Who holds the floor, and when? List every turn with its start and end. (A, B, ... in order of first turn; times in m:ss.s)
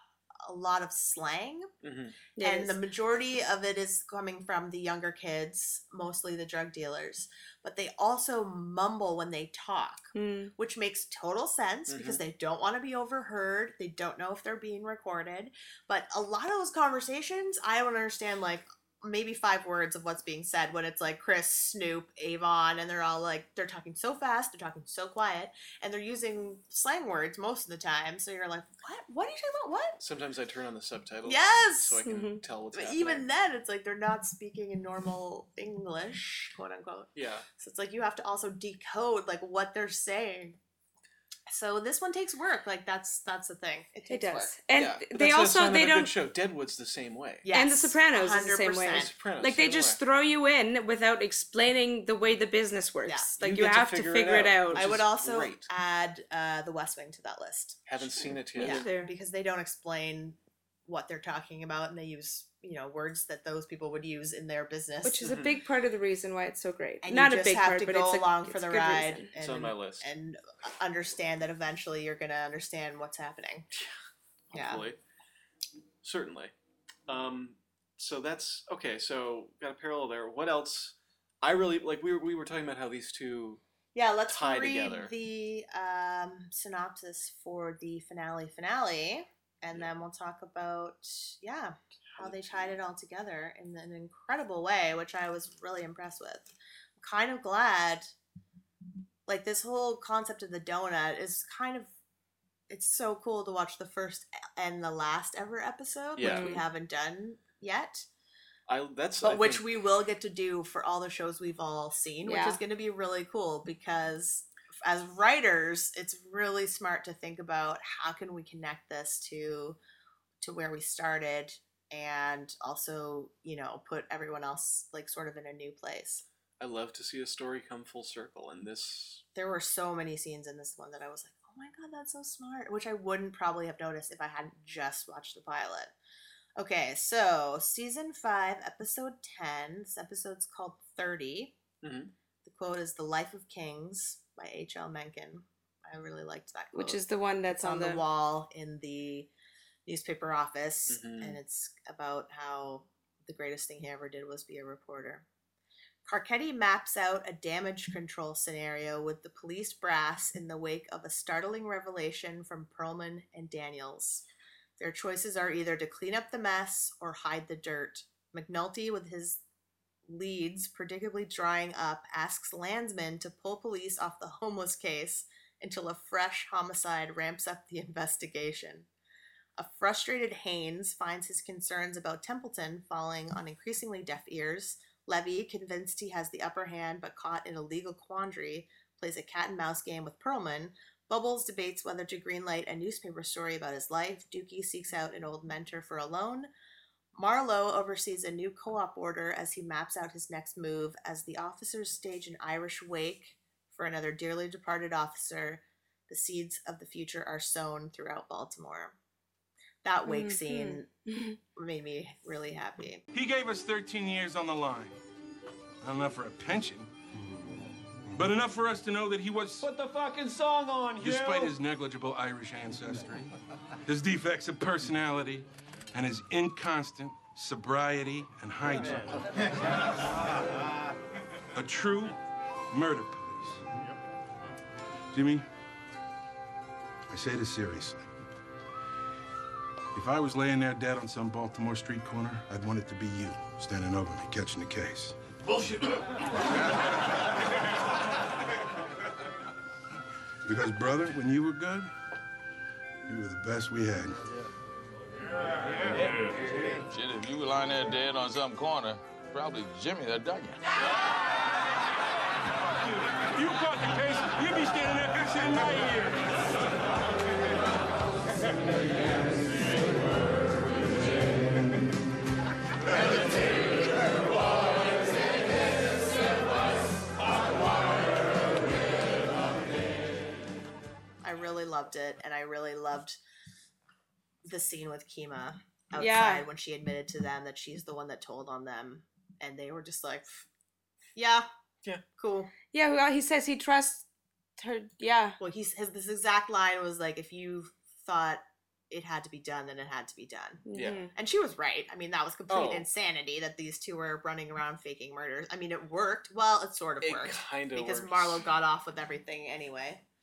0:00.4-0:01.7 A
0:01.8-0:02.2 B
0:02.4-0:02.8 C
0:02.4-0:30.0 A
0:10.2-0:10.5 C
0:11.9-0:12.2 B
0:30.0-0:33.3 B
0:31.2-0:32.0 A
0:32.0-0:32.4 C
0:32.7-0:40.6 A
0:37.2-0:37.5 B
0:41.5-0:44.5 A
0:44.1-0:46.1 C
0:44.7-0:47.5 B
0:47.4-0:49.1 A
0:47.5-0:54.8 C
0:48.9-0:50.0 B
0:53.1-0:53.3 A
0:53.4-0:55.6 B
0:54.7-0:57.8 A
0:57.9-0:58.9 B
0:58.2-0:59.1 C
0:58.6-1:05.3 A
1:05.0-1:09.3 C
1:05.2-1:05.5 B
1:07.0-1:13.7 A
1:09.4-1:10.1 B
1:14.5-1:15.0 B
1:14.5-1:14.8 A
1:16.0-1:16.5 B
1:17.1-1:23.6 B
1:23.9-1:38.1 A
1:24.3-1:25.1 B
1:32.1-1:32.8 B
1:39.3-1:41.9 A
1:42.7-1:48.1 A
1:46.2-1:46.5 B
1:46.2-1:46.6 C
1:48.7-1:49.6 B
1:49.2-1:59.8 A
1:52.2-1:52.6 C
2:00.4-2:06.2 A
2:06.6-2:09.2 B
2:09.4-2:15.9 A
2:16.6-2:21.5 A
2:21.8-2:22.1 B
2:22.4-2:29.3 A
2:26.7-2:28.0 C
2:29.9-2:35.2 A
2:30.9-2:31.4 B
2:36.0-2:44.3 A
2:44.8-2:49.4 A
2:50.1-2:58.9 A
2:59.6-3:16.5 A
3:17.2-3:29.0 A
3:29.8-3:30.9 A
3:30.1-3:31.4 C
3:31.6-3:33.0 A
3:33.1-3:35.0 D
3:35.8-3:36.9 D
3:38.1-3:39.7 D
3:41.0-3:43.3 D
3:43.9-3:49.2 D
3:51.6-3:52.2 D
3:52.7-3:53.6 D
3:55.1-3:55.5 D
3:57.1-3:58.1 D
3:59.9-4:05.8 D
4:10.5-4:11.9 D
4:13.1-4:14.2 D
4:15.9-4:16.3 E
4:16.9-4:20.6 E
4:23.2-4:26.2 D
4:41.2-4:43.2 A
4:44.4-4:50.4 A
4:46.0-4:46.5 C
4:51.2-4:51.5 A
4:52.2-4:52.5 A
4:52.7-4:54.1 C
4:54.6-4:55.4 C
4:55.4-5:10.0 A
5:00.7-5:01.1 C
5:00.7-5:01.0 B
5:02.5-5:02.9 B
5:07.0-5:08.5 B